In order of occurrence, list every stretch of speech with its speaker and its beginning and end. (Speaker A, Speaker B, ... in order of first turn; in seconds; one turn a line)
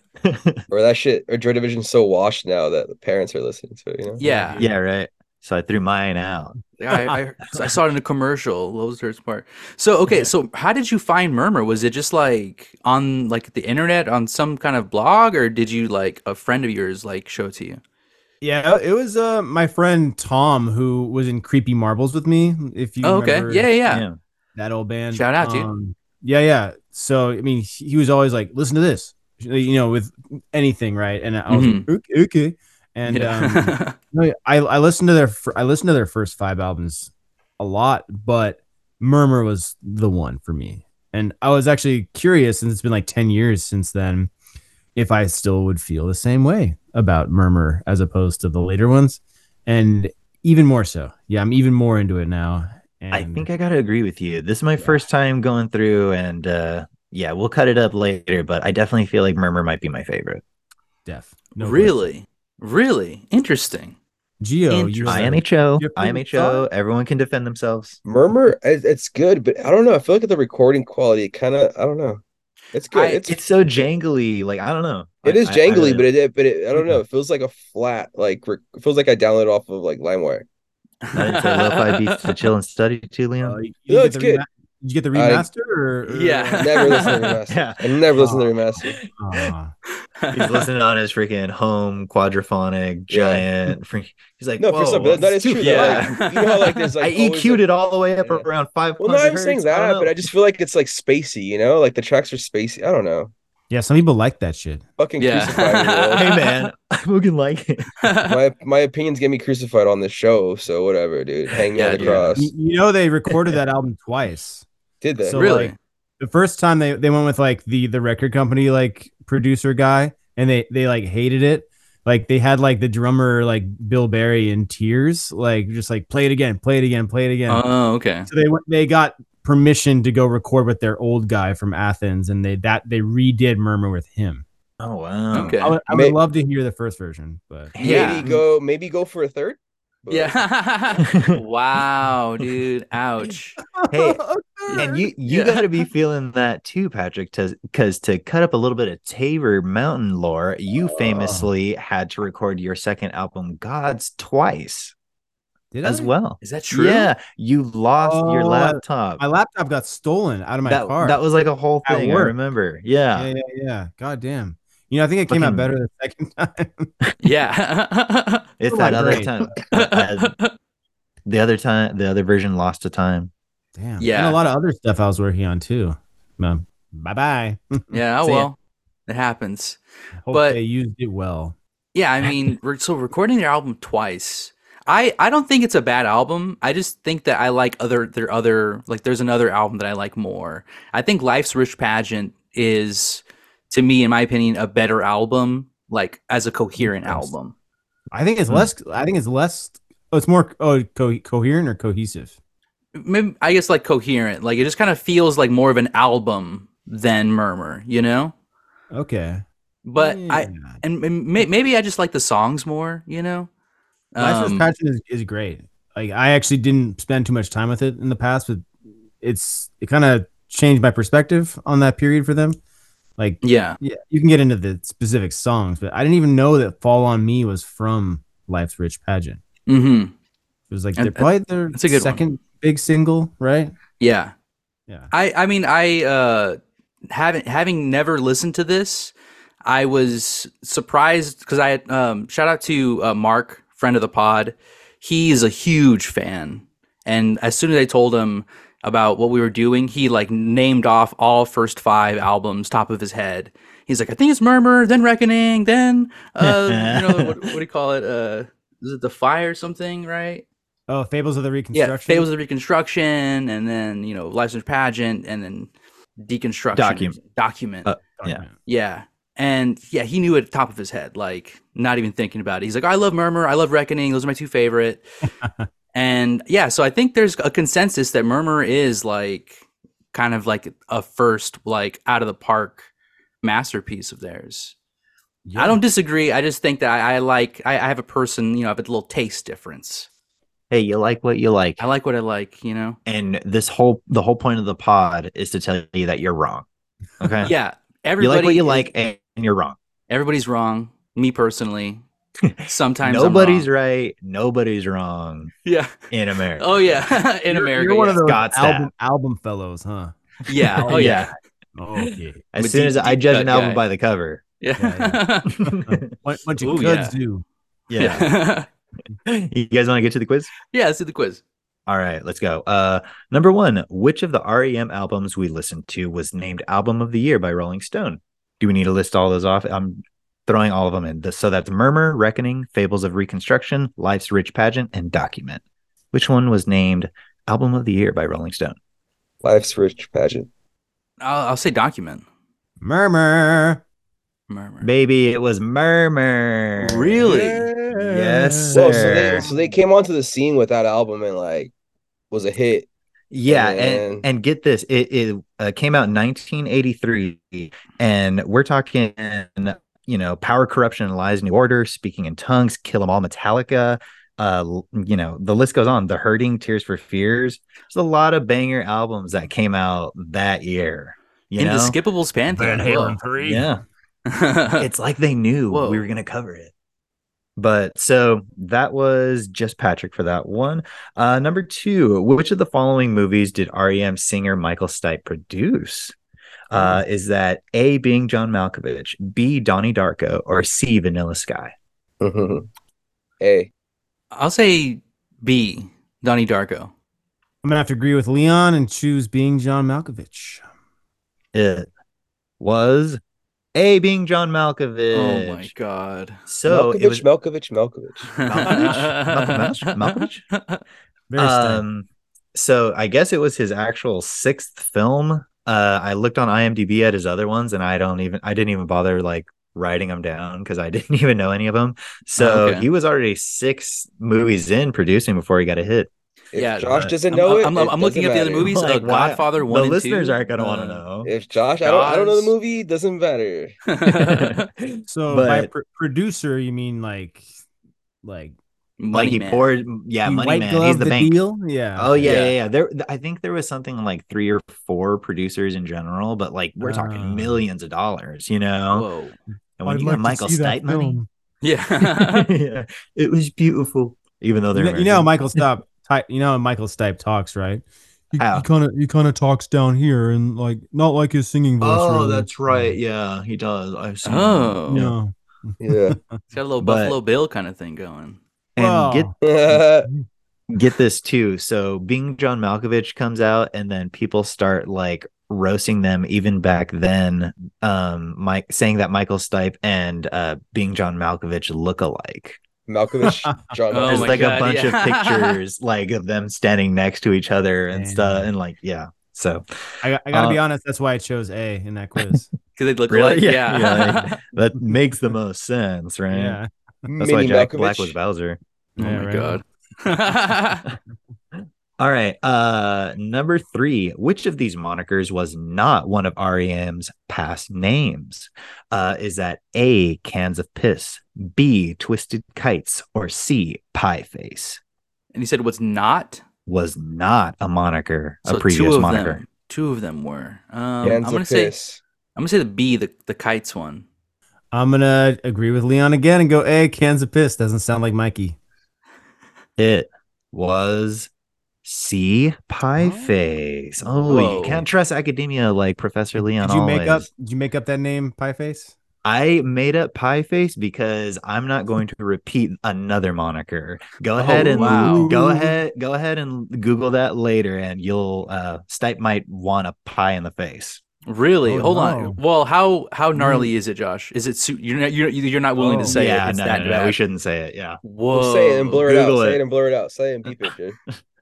Speaker A: 0.2-0.6
Speaker B: 0.7-4.2
Speaker C: 4.2-4.6
Speaker D: 4.2-4.7
Speaker A: 4.6-6.5
Speaker C: 6.8-17.8
Speaker D: 18.4-23.7
Speaker C: 23.0-24.0
Speaker A: 23.9-24.2
Speaker D: 24.5-44.3
Speaker C: 25.1-25.7
Speaker C: 31.5-31.9
Speaker C: 33.1-34.0
Speaker D: 44.9-53.5
Speaker A: 53.1-60.4
Speaker D: 54.8-55.0
Speaker D: 61.0-62.0
Speaker C: 61.6-64.0
Speaker D: 64.4-66.7
Speaker C: 64.7-65.3
Speaker A: 65.0-68.0
Speaker B: 68.0-72.2
Speaker B: 72.7-73.4
Speaker C: 72.9-73.2
Speaker A: 73.3-76.1
Speaker B: 75.2-80.5
Speaker C: 81.0-82.4
Speaker A: 81.1-83.6
Speaker D: 83.4-87.1
Speaker B: 83.9-84.4
Speaker B: 85.1-85.5
Speaker C: 86.1-87.3
Speaker B: 86.6-88.9
Speaker A: 87.5-87.8
Speaker D: 88.2-88.5
Speaker A: 88.8-89.5
Speaker D: 89.1-89.7
Speaker C: 90.2-90.7
Speaker A: 90.3-96.2
Speaker B: 93.1-93.5
Speaker B: 94.6-97.6
Speaker C: 95.6-96.9
Speaker A: 97.0-100.3
Speaker B: 99.0-103.3
Speaker D: 103.7-104.8
Speaker B: 105.0-106.3
Speaker C: 105.2-106.4
Speaker A: 106.2-108.0
Speaker C: 108.0-108.4
Speaker B: 108.2-112.5
Speaker C: 111.7-112.3
Speaker A: 111.9-112.3
Speaker D: 112.3-114.7
Speaker B: 115.0-115.4
Speaker D: 115.2-127.6
Speaker C: 115.3-115.7
Speaker C: 127.5-128.3
Speaker D: 128.3-134.4
Speaker A: 134.8-135.6
Speaker C: 135.3-135.8
Speaker D: 135.6-137.7
Speaker B: 135.9-136.2
Speaker A: 137.7-138.4
Speaker C: 137.8-138.2
Speaker B: 137.8-140.3
Speaker C: 140.1-143.6
Speaker A: 141.0-141.4
Speaker D: 143.7-145.1
Speaker A: 143.9-154.9
Speaker C: 145.3-145.6
Speaker D: 151.0-151.5
Speaker D: 155.7-156.1
Speaker A: 155.8-159.2
Speaker C: 156.4-157.1
Speaker D: 158.0-161.2
Speaker A: 160.6-163.3
Speaker D: 161.8-162.3
Speaker D: 163.1-166.9
Speaker A: 165.3-165.7
Speaker C: 167.2-168.5
Speaker A: 168.6-170.3
Speaker D: 168.7-169.5
Speaker C: 169.7-170.5
Speaker A: 171.2-173.3
Speaker D: 173.8-178.0
Speaker C: 174.0-174.4
Speaker C: 177.9-178.6
Speaker A: 178.2-178.5
Speaker C: 179.1-179.8
Speaker D: 180.2-181.6
Speaker C: 180.3-180.6
Speaker C: 181.9-197.5
Speaker D: 196.8-197.3
Speaker D: 198.1-202.3
Speaker C: 202.9-208.3
Speaker D: 208.9-209.4
Speaker C: 209.8-213.5
Speaker D: 209.9-210.8
Speaker C: 214.1-214.7
Speaker D: 214.2-218.7
Speaker D: 219.2-222.6
Speaker D: 223.2-229.4
Speaker C: 223.4-223.8
Speaker C: 229.7-230.1
Speaker D: 230.7-233.7
Speaker C: 231.0-232.2
Speaker C: 234.0-234.3
Speaker C: 235.1-236.6
Speaker C: 237.1-239.1
Speaker C: 239.6-260.4
Speaker A: 256.4-257.5
Speaker D: 260.9-262.3
Speaker C: 261.7-267.9
Speaker A: 266.7-267.2
Speaker A: 267.8-268.4
Speaker D: 268.2-268.5
Speaker C: 268.6-275.1
Speaker D: 275.4-275.7
Speaker C: 275.9-282.9
Speaker C: 283.4-284.7
Speaker D: 285.4-285.8
Speaker C: 285.6-290.1
Speaker A: 290.7-291.8
Speaker C: 291.8-293.0
Speaker A: 293.1-296.6
Speaker A: 297.2-297.5
Speaker C: 297.4-298.9
Speaker A: 298.2-299.8
Speaker C: 300.1-302.0
Speaker A: 302.4-305.5
Speaker C: 302.6-303.7
Speaker C: 305.6-306.0
Speaker A: 306.1-307.0
Speaker C: 306.6-308.2
Speaker D: 307.5-310.1
Speaker A: 308.2-308.9
Speaker C: 310.5-311.3
Speaker D: 310.8-312.4
Speaker A: 310.8-311.3
Speaker A: 312.5-314.4
Speaker C: 312.6-313.8
Speaker C: 314.6-315.5
Speaker D: 314.8-317.4
Speaker A: 315.6-316.1
Speaker C: 316.6-317.1
Speaker A: 317.9-318.3
Speaker C: 318.0-318.7
Speaker A: 319.2-320.5
Speaker C: 320.7-321.4
Speaker A: 321.9-335.6
Speaker A: 336.1-338.8
Speaker B: 339.4-340.5
Speaker C: 341.2-342.2
Speaker D: 342.8-343.8
Speaker C: 344.5-344.9
Speaker A: 344.8-347.2
Speaker C: 346.8-347.7
Speaker D: 347.2-349.8
Speaker A: 347.9-349.5
Speaker B: 348.7-351.7
Speaker B: 352.3-352.9
Speaker A: 353.3-371.9
Speaker B: 353.5-354.2
Speaker C: 371.6-373.2
Speaker D: 372.5-373.7
Speaker A: 373.4-373.8
Speaker C: 374.3-374.9
Speaker A: 374.8-376.7
Speaker C: 375.7-376.1
Speaker A: 377.6-386.1
Speaker A: 386.7-391.7
Speaker B: 392.2-392.6
Speaker B: 393.4-393.7
Speaker C: 394.3-396.9
Speaker D: 397.6-400.6
Speaker A: 401.5-401.9
Speaker A: 402.6-403.2
Speaker A: 403.7-405.7
Speaker C: 405.1-406.4
Speaker A: 406.5-407.2
Speaker B: 406.7-408.3
Speaker C: 408.4-410.8
Speaker A: 408.4-410.4
Speaker D: 411.3-411.8
Speaker A: 411.4-426.1
Speaker C: 422.4-422.9
Speaker B: 426.5-428.7
Speaker C: 426.5-431.0
Speaker A: 428.6-431.3
Speaker B: 431.2-433.8
Speaker C: 431.8-432.5
Speaker C: 433.9-434.7
Speaker A: 434.1-435.7
Speaker D: 435.1-437.5
Speaker D: 438.2-438.6
Speaker C: 439.0-439.7
Speaker A: 439.1-441.4
Speaker D: 440.2-442.3
Speaker A: 441.9-449.1
Speaker C: 442.2-442.6
Speaker D: 446.8-447.6
Speaker C: 448.9-449.4
Speaker A: 449.8-451.2
Speaker D: 449.8-451.3
Speaker C: 451.6-452.5
Speaker A: 452.0-455.3
Speaker D: 454.7-463.0
Speaker A: 458.4-458.6
Speaker A: 461.8-464.8
Speaker C: 464.2-465.1
Speaker D: 464.9-466.4
Speaker B: 465.8-466.1
Speaker C: 466.5-468.4
Speaker A: 466.8-467.1
Speaker A: 468.8-469.8
Speaker D: 468.8-469.3
Speaker B: 469.4-470.1
Speaker A: 470.7-482.6
Speaker B: 482.9-484.6
Speaker C: 483.9-485.6
Speaker A: 484.0-490.6
Speaker D: 487.9-488.5
Speaker D: 490.0-492.5
Speaker C: 492.8-494.4
Speaker A: 493.1-496.6
Speaker D: 496.3-496.7
Speaker B: 497.1-498.1
Speaker A: 497.2-498.6
Speaker D: 499.0-499.6
Speaker C: 499.0-500.8
Speaker A: 501.5-514.8
Speaker C: 515.3-516.4
Speaker A: 516.7-519.4
Speaker C: 518.5-521.7
Speaker B: 521.0-522.0
Speaker C: 522.4-524.0
Speaker D: 524.7-528.6
Speaker A: 529.8-531.3
Speaker A: 531.8-537.3
Speaker D: 532.9-533.3
Speaker C: 534.2-534.8
Speaker D: 536.5-538.9
Speaker A: 539.2-551.0
Speaker D: 544.4-545.8
Speaker C: 544.5-545.4
Speaker C: 551.2-557.2
Speaker D: 551.6-552.4
Speaker D: 553.4-553.7
Speaker D: 555.8-556.2
Speaker A: 556.1-558.0
Speaker C: 558.0-559.0
Speaker B: 558.3-561.0
Speaker A: 559.0-559.6